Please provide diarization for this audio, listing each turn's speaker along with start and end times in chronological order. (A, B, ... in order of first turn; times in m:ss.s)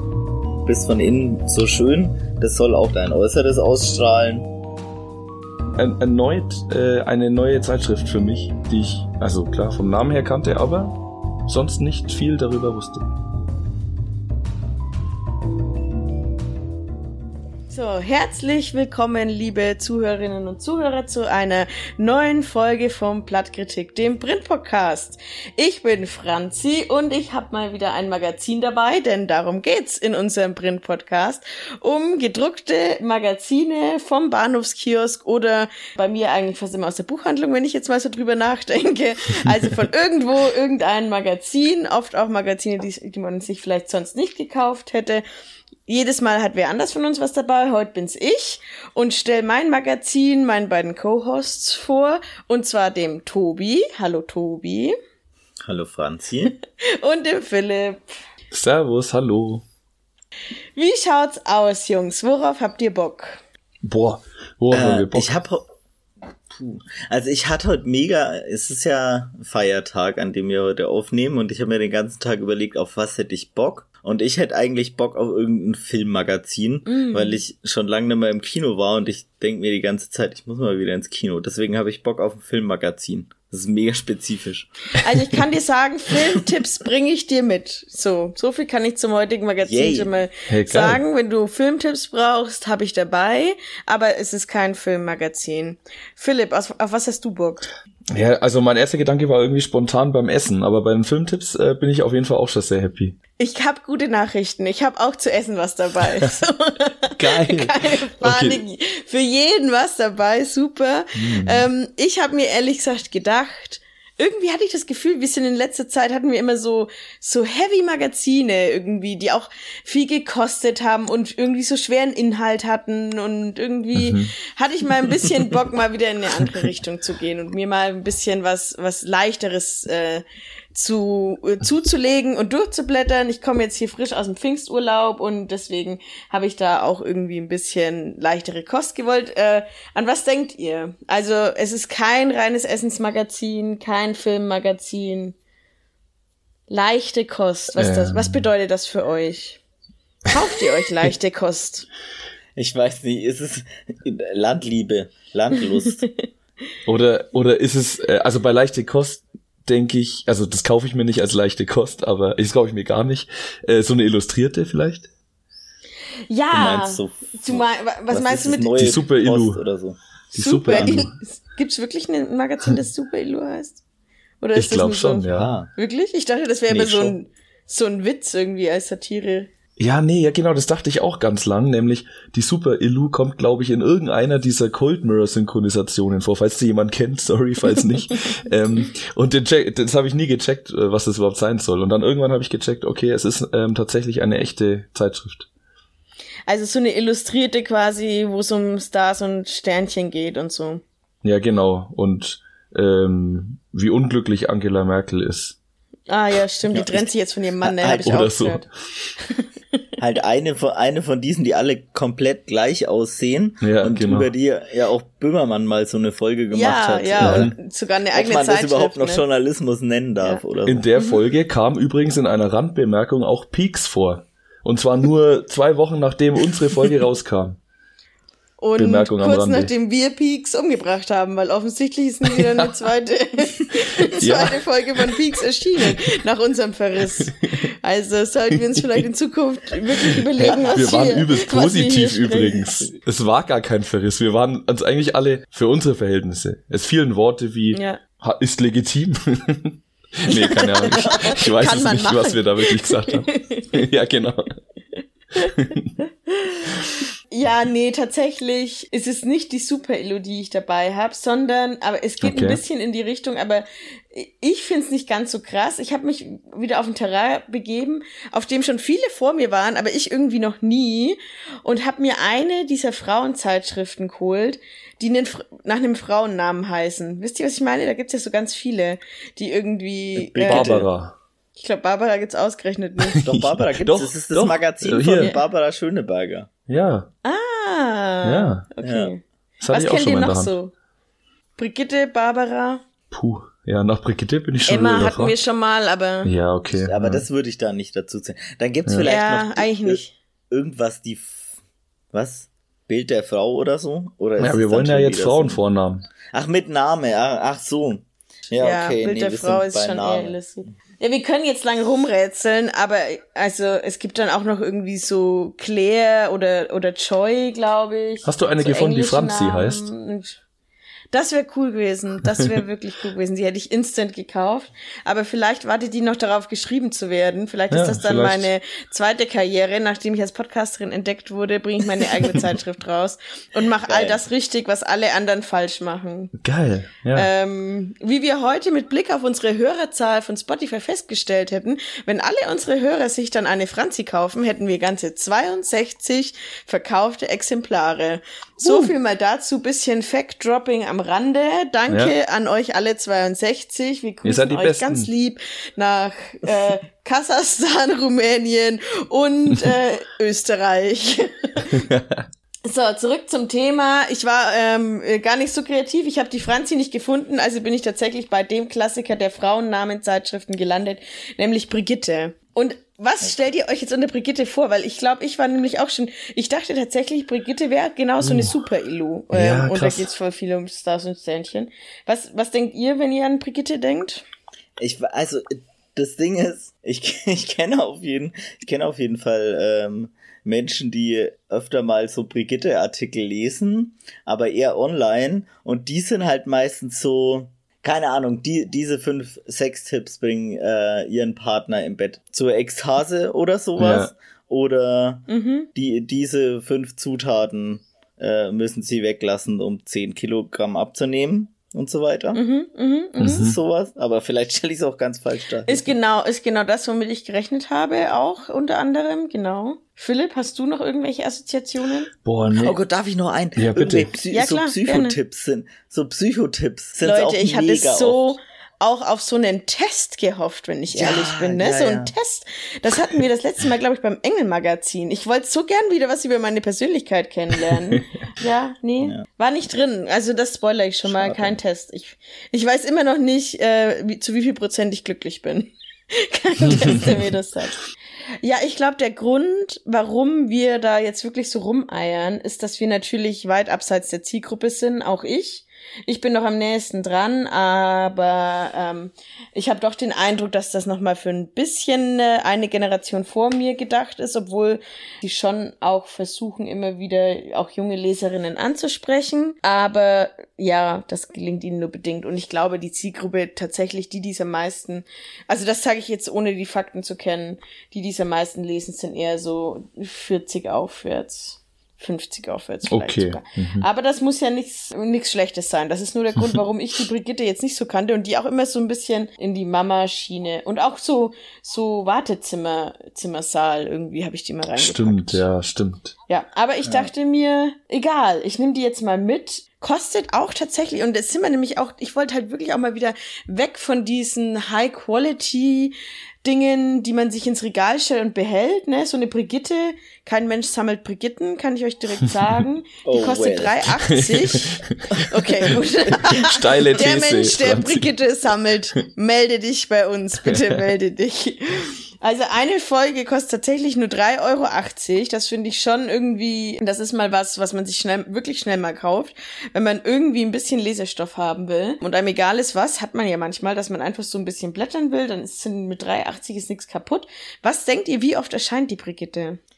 0:00.7-0:04.5 A
0:05.8-0:11.0 B
0:11.5-0:13.1 B
0:17.7-0:45.2 C
0:45.9-0:55.0 C
0:55.6-0:56.6 A
0:56.8-0:58.1 C
0:58.5-0:59.6 B
1:00.8-1:03.4 C
1:03.8-1:05.4 B
1:04.7-1:05.7 A
1:06.5-1:24.7 A
1:16.9-1:17.4 C
1:25.0-1:37.7 C
1:29.6-1:30.1 A
1:30.5-1:31.0 B
1:38.1-1:43.2 B
1:43.4-2:25.4 C
1:47.2-1:48.6 B
1:51.2-1:51.7 B
2:04.0-2:04.3 B
2:26.7-2:29.6 C
2:27.8-2:28.4 B
2:30.3-2:31.9 C
2:32.6-2:36.0 A
2:36.9-2:45.1 B
2:46.3-2:48.9 C
2:46.5-2:50.0 A
2:48.8-2:49.6 B
2:50.3-2:51.1 B
2:50.3-2:53.8 C
2:54.4-2:59.5 C
2:54.6-2:55.5 B
2:55.3-2:55.7 A
2:56.7-2:57.2 A
2:59.8-3:15.5 B
3:16.5-3:20.8 C
3:21.2-3:25.6 B
3:26.1-3:28.7 C
3:26.7-3:27.1 A
3:27.6-3:28.2 A
3:28.0-3:28.7 B
3:29.2-3:29.5 C
3:30.0-3:37.5 A
3:33.6-3:34.3 B
3:36.5-3:39.2 C
3:37.2-3:37.5 B
3:38.1-3:40.9 A
3:40.7-3:47.6 B
3:48.6-4:02.9 C
3:48.8-3:49.7 B
3:52.3-3:52.7 B
3:54.2-3:55.1 B
4:00.1-4:14.5 B
4:07.7-4:08.0 C
4:10.3-4:13.7 C
4:10.9-4:11.4 A
4:15.4-4:15.9 B
4:16.4-4:40.9 C
4:22.2-4:22.6 B
4:40.2-4:40.9 A
4:40.5-4:41.2 B
4:41.6-4:43.2 C
4:43.1-4:45.3 B
4:43.2-4:46.5 A
4:46.7-4:47.1 B
4:47.2-4:50.7 C
4:48.2-4:48.7 B
4:48.8-4:49.1 A
4:49.6-4:50.6 B
4:51.6-4:52.8 C
4:53.1-4:55.4 B
4:54.7-4:56.3 C
4:56.2-4:57.2 B
4:56.8-5:01.5 A
4:59.0-5:00.2 C
5:02.1-5:05.6 A
5:04.4-5:06.0 B
5:06.3-5:10.4 A
5:08.6-5:20.4 C
5:18.2-5:19.9 B
5:21.1-5:36.3 C
5:27.7-5:28.5 B
5:33.9-5:34.3 A
5:36.4-5:37.3 B
5:37.1-6:01.8 C
5:48.6-5:48.9 B
5:51.9-5:52.1 B
5:54.2-5:55.1 B
6:01.7-6:02.3 B
6:02.7-6:24.2 C
6:18.2-6:18.5 B
6:19.3-6:20.1 B
6:24.8-6:52.4 A
6:43.8-6:44.1 B
6:45.3-6:45.7 C
6:52.3-6:53.4 C
6:53.2-6:55.9 A
6:53.2-6:53.6 B
6:55.7-7:02.1 C
7:02.2-7:02.8 B
7:02.6-7:08.3 A
7:03.6-7:04.1 B
7:04.3-7:05.2 C
7:07.0-7:27.9 C
7:10.9-7:12.1 A
7:21.1-7:21.6 A
7:26.7-7:27.2 B
7:28.4-8:15.4 C
8:02.9-8:03.8 B
8:14.8-8:16.1 B
8:16.3-8:59.6 C
8:33.0-8:33.9 A
8:34.1-8:38.1 B
8:40.4-8:40.8 B